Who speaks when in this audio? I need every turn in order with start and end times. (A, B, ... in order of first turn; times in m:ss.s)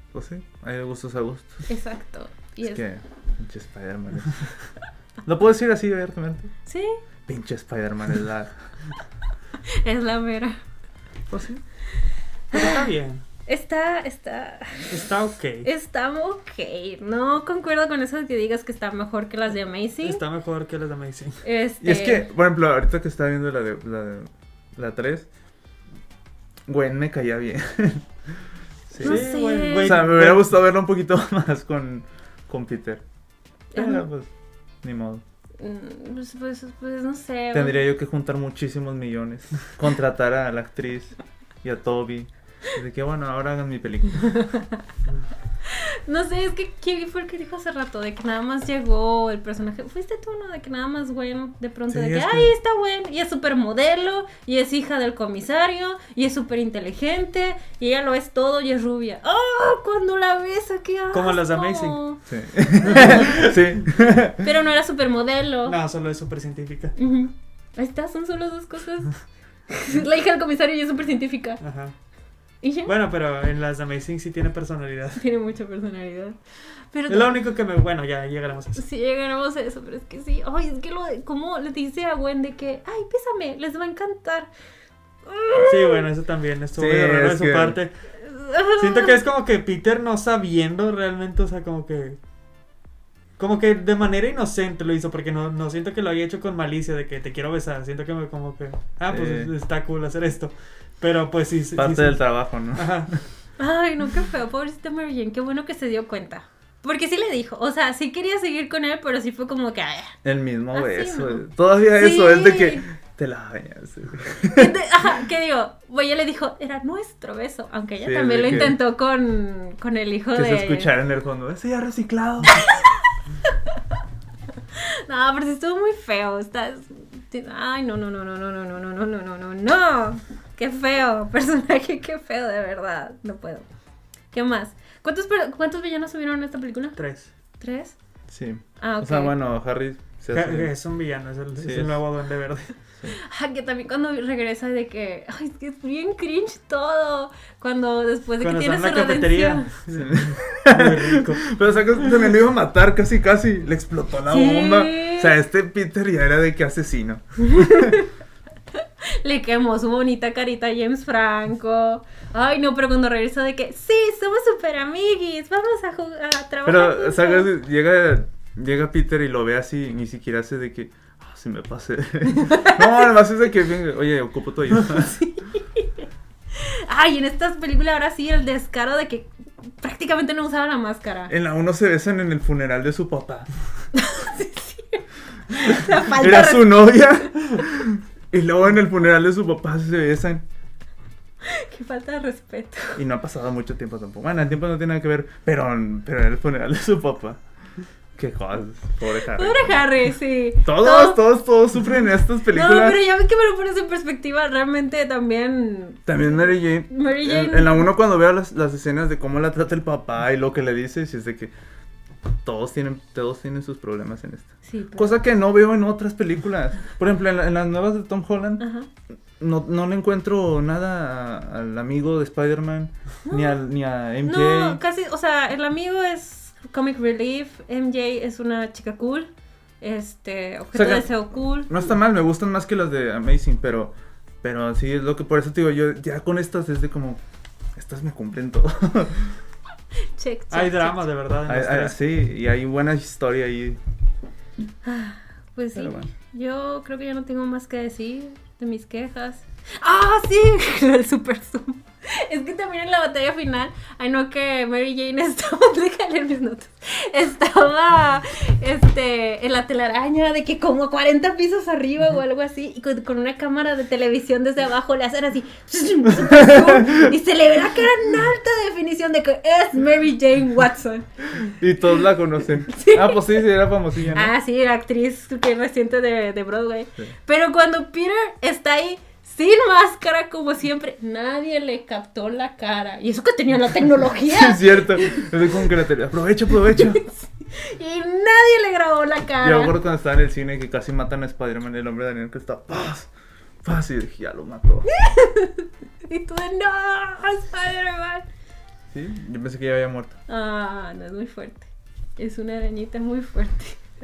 0:00.1-0:01.6 A
0:01.7-0:02.8 B
0:02.6-0:04.5 A
0:05.2-0:06.5 A
0:06.7-0:07.0 B
0:07.3-0:08.6 A
0:09.7-0:10.6 B
0:11.3-0:11.6 A
0:12.5-0:13.2 C
0:12.5-0:12.8 B
0:13.5-0:15.1 B
0:14.9-0:15.7 C
0:15.6-0:20.2 B
0:20.0-0:21.4 C
0:21.4-0:22.2 B
0:21.8-0:25.3 A
0:26.7-0:28.4 A
0:28.9-0:33.0 A
0:29.0-0:30.5 C
0:29.0-0:30.0 B
0:33.7-0:34.0 B
0:33.8-0:34.3 A
0:34.8-0:35.2 A
0:35.6-0:37.8 B
0:37.5-0:44.4 A
0:44.3-0:44.8 B
0:45.6-1:02.2 B
0:51.9-0:52.5 A
1:01.1-1:02.0 C
1:02.3-1:04.5 A
1:02.8-1:03.3 B
1:02.9-1:03.2 C
1:04.4-1:05.8 B
1:05.7-1:07.0 C
1:07.0-1:11.6 B
1:11.6-1:12.0 C
1:12.6-1:12.9 B
1:12.8-1:15.2 C
1:15.2-1:16.4 B
1:16.9-1:17.3 B
1:17.1-1:18.8 C
1:18.8-1:24.5 B
1:25.3-1:26.1 B
1:25.6-1:27.9 C
1:26.8-1:27.8 A
1:28.2-1:29.2 B
1:28.8-1:32.2 C
1:33.4-1:43.2 C
1:39.1-1:39.5 A
1:41.8-1:43.2 A
1:43.6-1:50.2 B
1:50.2-1:54.7 A
1:50.7-1:52.8 B
1:54.5-2:00.9 B
1:58.0-1:58.8 A
2:00.4-2:02.7 A
2:04.8-2:13.7 B
2:14.3-2:17.0 B
2:17.0-2:17.3 C
2:17.6-2:18.0 B
2:18.3-2:20.7 A
2:18.8-2:19.4 B
2:20.3-2:22.8 C
2:21.6-2:22.0 A
2:23.1-2:29.7 B
2:28.4-2:31.6 C
2:29.9-2:38.0 A
2:34.3-2:35.3 B
2:37.4-2:38.1 B
2:39.1-2:47.5 B
2:46.6-2:55.2 A
2:52.4-2:53.0 B
2:55.1-2:56.0 B
2:56.6-3:01.3 B
3:01.3-3:03.5 A
3:03.9-3:07.4 B
3:05.7-3:10.4 A
3:11.4-3:13.0 B
3:13.0-3:17.4 A
3:18.2-3:19.8 A
3:19.3-3:21.2 B
3:20.6-3:23.0 A
3:22.5-3:27.9 B
3:26.1-3:31.5 A
3:32.4-3:38.6 A
3:34.7-3:35.2 B
3:38.6-3:38.9 B
3:39.4-3:44.8 A
3:43.3-3:43.6 B
3:44.2-3:49.3 B
3:49.8-3:51.7 B
3:50.7-3:57.2 A
3:57.8-3:59.4 A
4:00.2-4:01.0 B
4:00.5-4:02.0 C
4:01.5-4:03.8 A
4:04.8-4:31.1 B
4:05.8-4:06.1 A
4:26.2-4:27.0 A
4:31.4-4:34.3 A
4:32.7-4:33.4 B
4:34.1-4:45.6 B
4:44.3-4:47.0 A
4:46.7-4:49.8 B
4:49.4-4:53.1 A
4:53.6-4:54.9 A
4:54.9-4:58.3 B
4:58.9-5:00.2 A
5:00.3-5:03.8 B